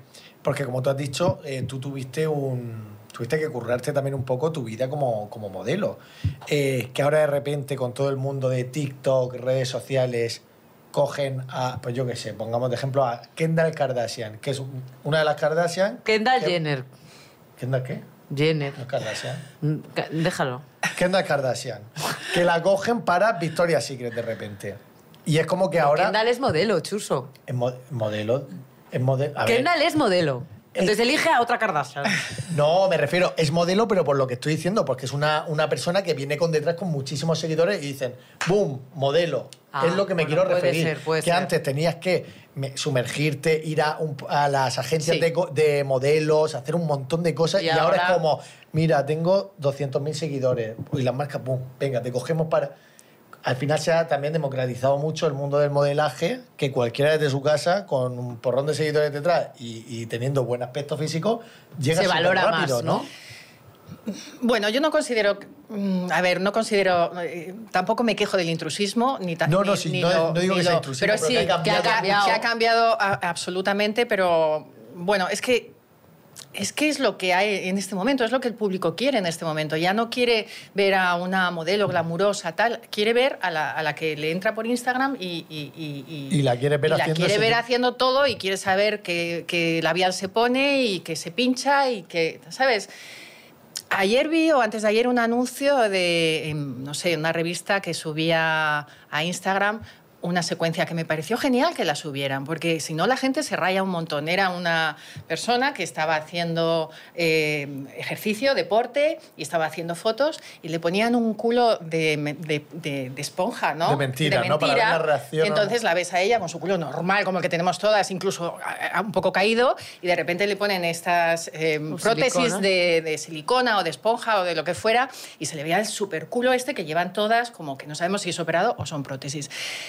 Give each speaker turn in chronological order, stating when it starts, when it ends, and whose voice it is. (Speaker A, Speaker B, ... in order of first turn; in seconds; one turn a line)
Speaker A: 0.4-10.4
Speaker A: 10.9-16.6
Speaker B: 16.1-16.9
Speaker A: 17.6-18.1
Speaker B: 18.3-18.8
Speaker A: 18.8-19.4
Speaker B: 19.6-20.6
Speaker A: 20.9-26.2
Speaker B: 25.8-27.3
Speaker A: 27.5-29.7
Speaker B: 29.4-32.2
Speaker A: 32.5-52.8
Speaker B: 39.7-41.5
Speaker B: 45.0-45.3
Speaker B: 47.6-48.2
Speaker A: 53.4-63.1
Speaker B: 61.9-63.1
Speaker C: 64.1-75.8
Speaker A: 69.5-72.4
Speaker B: 71.6-72.4
Speaker C: 76.5-92.9
Speaker A: 86.3-87.6
Speaker C: 93.9-129.5
Speaker A: 113.8-115.8
Speaker B: 121.9-122.6